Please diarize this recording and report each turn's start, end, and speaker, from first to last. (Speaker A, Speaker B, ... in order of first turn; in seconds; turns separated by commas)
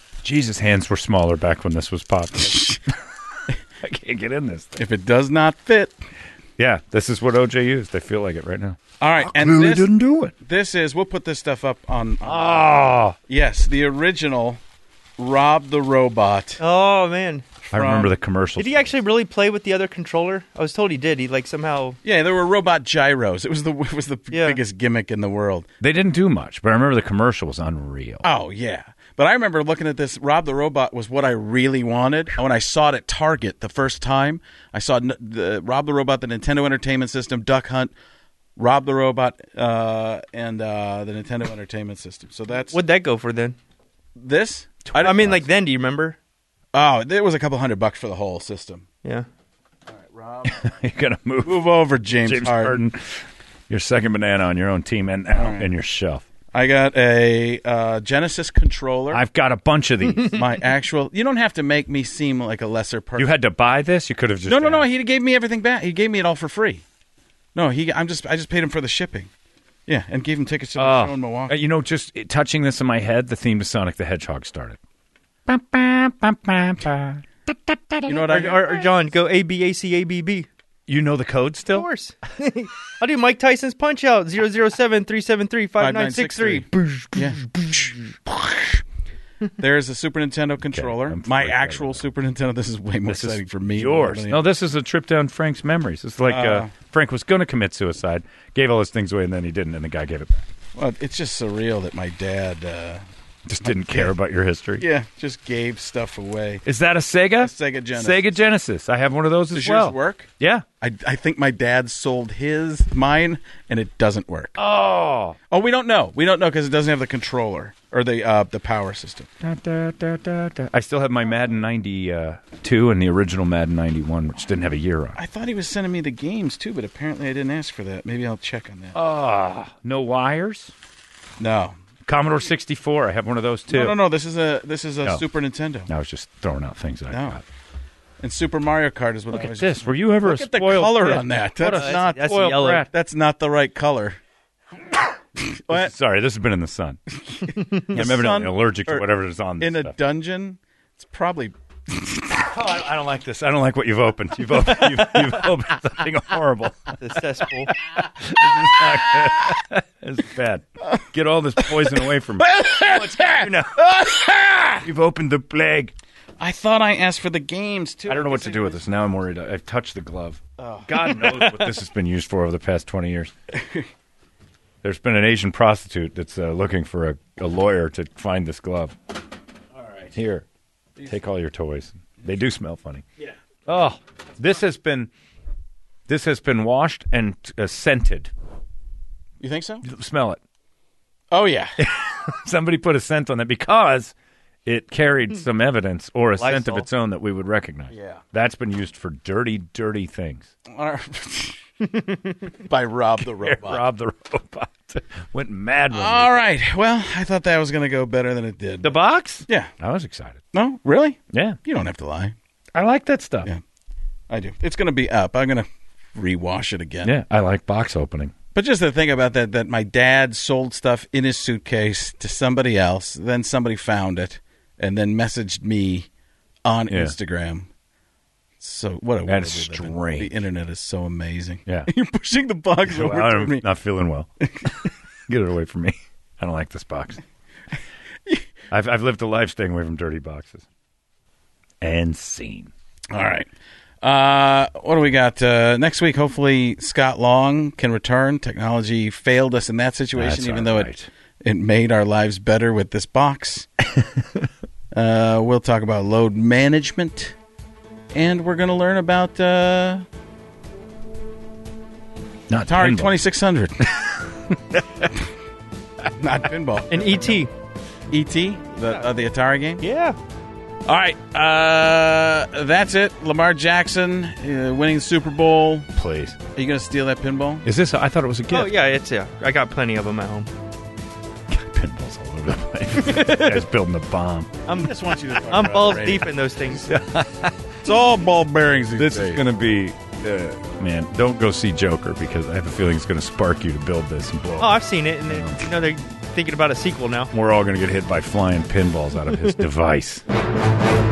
Speaker A: 0.2-2.9, Speaker A: 3.8-4.8, Speaker B: 4.8-6.0, Speaker A: 6.6-10.3, Speaker B: 9.0-12.7, Speaker A: 12.2-13.2, Speaker B: 13.3-14.6, Speaker B: 15.2-16.6, Speaker C: 16.6-17.6, Speaker A: 17.7-19.0, Speaker B: 17.7-18.1, Speaker C: 18.6-22.0, Speaker B: 22.0-25.7, Speaker C: 24.3-24.6, Speaker A: 25.8-28.2, Speaker B: 28.2-37.9, Speaker B: 38.6-42.8, Speaker C: 42.7-43.6, Speaker B: 44.2-45.5, Speaker A: 44.9-45.4, Speaker C: 45.0-46.2, Speaker B: 46.7-48.9, Speaker B: 49.9-50.7, Speaker A: 50.5-56.2, Speaker B: 51.4-52.8, Speaker B: 55.3-55.7, Speaker B: 56.5-59.2, Speaker A: 59.1-60.4, Speaker B: 60.3-63.3, Speaker A: 63.2-64.9, Speaker B: 64.5-66.8, Speaker B: 67.5-69.3, Speaker B: 69.9-71.5, Speaker A: 70.8-74.8, Speaker A: 75.5-78.7, Speaker B: 78.1-78.8, Speaker C: 78.3-80.5, Speaker A: 80.9-81.9, Speaker C: 81.7-87.8, Speaker B: 85.8-87.9, Speaker B: 89.6-94.5, Speaker A: 90.7-92.1, Speaker A: 93.1-100.5, Speaker B: 96.2-96.7, Speaker B: 100.8-103.0, Speaker A: 103.5-104.8, Speaker B: 103.6-104.1, Speaker B: 104.8-106.6, Speaker A: 106.7-110.7, Speaker B: 107.4-108.3, Speaker B: 109.5-110.3, Speaker B: 110.8-114.6, Speaker A: 114.6-115.4, Speaker B: 115.5-119.3, Speaker A: 119.4-125.2, Speaker B: 125.2-129.0, Speaker A: 128.9-130.7, Speaker B: 131.4-131.8, Speaker A: 132.0-134.0, Speaker B: 133.7-135.9, Speaker A: 135.9-137.4, Speaker B: 137.1-137.4, Speaker B: 138.2-144.2, Speaker A: 139.3-142.9, Speaker C: 141.6-142.9, Speaker B: 145.4-145.9, Speaker A: 145.7-147.0, Speaker B: 147.3-149.1, Speaker A: 147.9-149.9, Speaker B: 149.6-152.4, Speaker A: 152.4-163.8, Speaker C: 154.7-155.3, Speaker C: 157.0-157.7, Speaker B: 162.4-164.8, Speaker C: 163.2-163.6, Speaker A: 164.8-165.9, Speaker B: 166.4-168.8, Speaker A: 168.1-173.3, Speaker B: 170.6-171.3, Speaker C: 171.0-171.7, Speaker B: 173.5-173.9, Speaker A: 174.8-179.0, Speaker B: 179.8-180.1, Speaker A: 180.1-180.4, Speaker A: 181.0-183.1, Speaker A: 183.7-185.1, Speaker A: 186.1-188.3, Speaker B: 189.4-189.8, Speaker A: 189.8-190.4, Speaker B: 191.3-191.7, Speaker A: 191.8-194.1, Speaker A: 194.7-200.5, Speaker C: 196.4-196.9, Speaker B: 197.9-198.2, Speaker B: 200.7-201.6, Speaker B: 202.7-203.9, Speaker A: 203.2-206.4, Speaker B: 205.9-209.7, Speaker A: 208.8-210.4, Speaker B: 210.5-212.3, Speaker A: 211.3-211.6, Speaker A: 212.7-213.5, Speaker B: 214.3-217.1, Speaker A: 217.0-218.3, Speaker B: 218.5-226.1, Speaker B: 226.7-227.7, Speaker A: 226.9-227.2, Speaker B: 228.6-233.7, Speaker A: 229.2-230.4, Speaker A: 232.9-234.7, Speaker A: 235.3-237.2, Speaker A: 238.7-240.7, Speaker A: 241.8-242.7, Speaker B: 243.1-243.5, Speaker B: 244.0-250.9, Speaker A: 250.2-251.1, Speaker B: 251.4-253.7, Speaker B: 254.9-257.3, Speaker B: 258.1-260.1, Speaker A: 262.5-263.1, Speaker B: 262.7-263.9, Speaker A: 264.0-265.1, Speaker B: 266.2-267.4, Speaker C: 266.9-267.5, Speaker B: 268.1-269.8, Speaker C: 269.8-270.2, Speaker B: 270.9-275.9, Speaker A: 276.0-276.4, Speaker B: 276.5-277.6, Speaker A: 277.6-278.8, Speaker C: 278.5-280.5, Speaker A: 281.5-284.6, Speaker C: 283.0-283.6, Speaker C: 284.7-286.9, Speaker B: 284.7-286.9, Speaker A: 285.5-286.0, Speaker A: 286.9-287.6, Speaker B: 287.8-289.4, Speaker A: 288.9-295.6, Speaker C: 294.6-297.3, Speaker A: 297.3-300.2